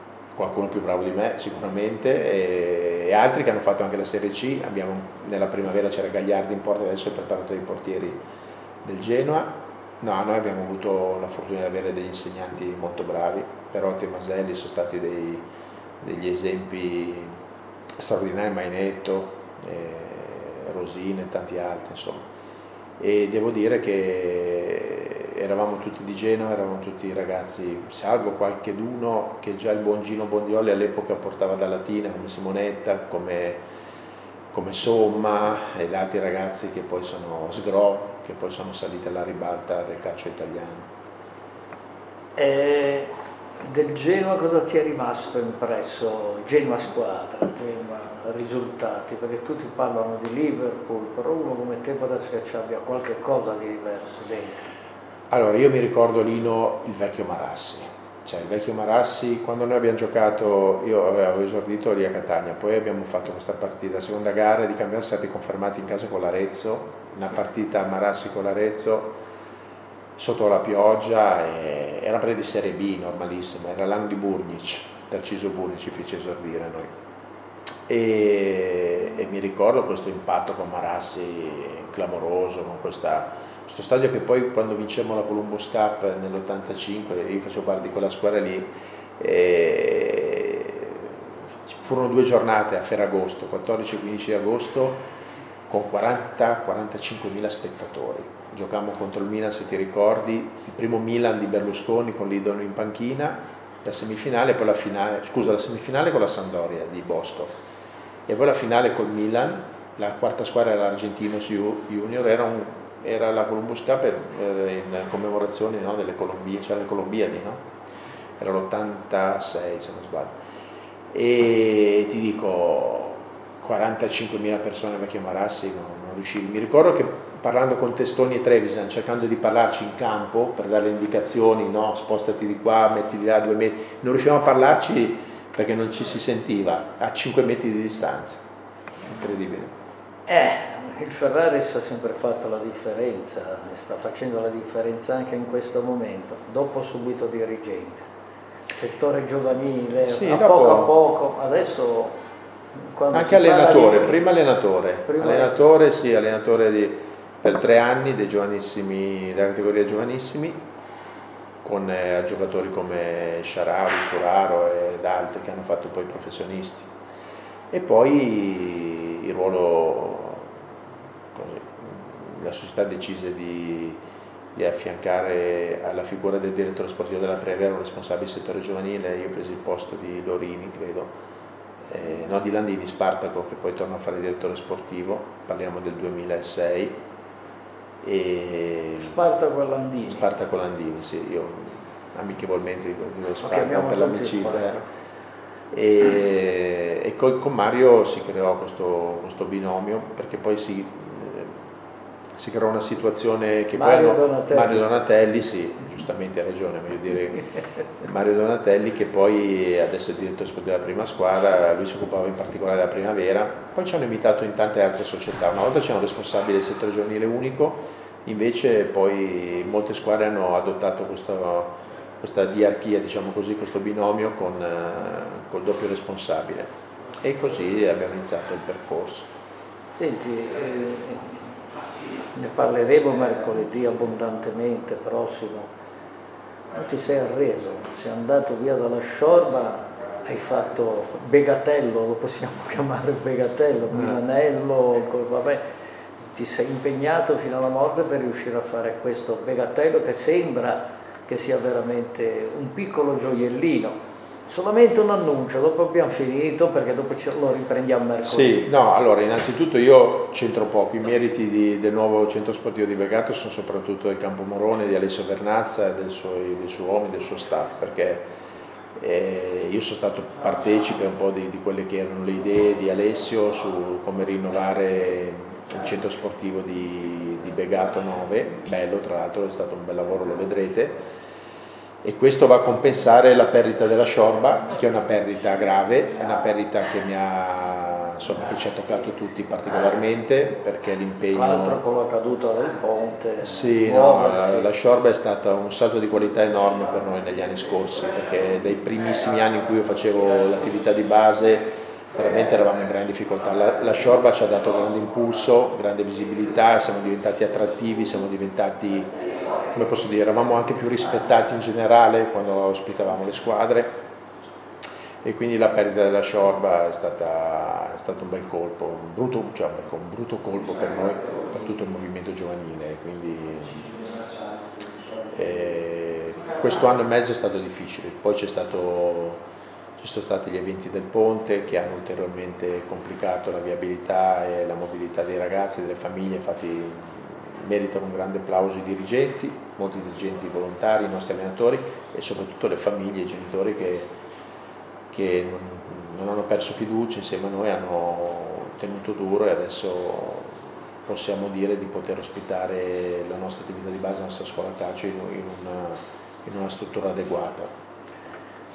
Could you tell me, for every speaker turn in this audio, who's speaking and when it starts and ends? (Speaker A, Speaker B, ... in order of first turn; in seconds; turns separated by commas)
Speaker A: 0.3-8.2, Speaker A: 8.8-15.4, Speaker A: 16.0-17.3, Speaker A: 18.0-22.3, Speaker A: 23.0-33.6, Speaker A: 34.5-40.9, Speaker B: 42.4-54.7, Speaker A: 55.3-69.2, Speaker A: 70.2-76.9, Speaker A: 77.9-95.0, Speaker A: 95.7-107.6, Speaker A: 108.3-117.6, Speaker A: 118.4-120.4, Speaker A: 121.1-138.4, Speaker A: 139.1-139.7, Speaker B: 140.3-148.1, Speaker B: 148.7-152.2, Speaker A: 150.1-150.9, Speaker B: 152.8-154.2, Speaker A: 153.1-160.6, Speaker B: 155.1-155.5, Speaker A: 161.6-166.9, Speaker A: 167.7-170.5, Speaker A: 171.3-174.0, Speaker A: 174.6-181.1, Speaker A: 181.9-187.0, Speaker A: 188.0-189.2, Speaker B: 189.0-190.3, Speaker A: 190.0-194.9, Speaker B: 193.4-194.8, Speaker A: 195.7-201.6, Speaker A: 202.4-207.4, Speaker B: 203.7-204.9, Speaker A: 208.0-229.3, Speaker B: 230.0-231.5, Speaker B: 232.2-235.7, Speaker B: 236.7-245.6, Speaker B: 246.3-258.7, Speaker A: 258.2-268.2, Speaker A: 269.0-281.0, Speaker A: 282.0-291.8, Speaker B: 291.3-294.7, Speaker A: 293.4-309.1, Speaker A: 309.7-314.0, Speaker A: 315.2-324.0, Speaker A: 325.3-329.4, Speaker A: 330.0-344.1, Speaker A: 345.1-357.7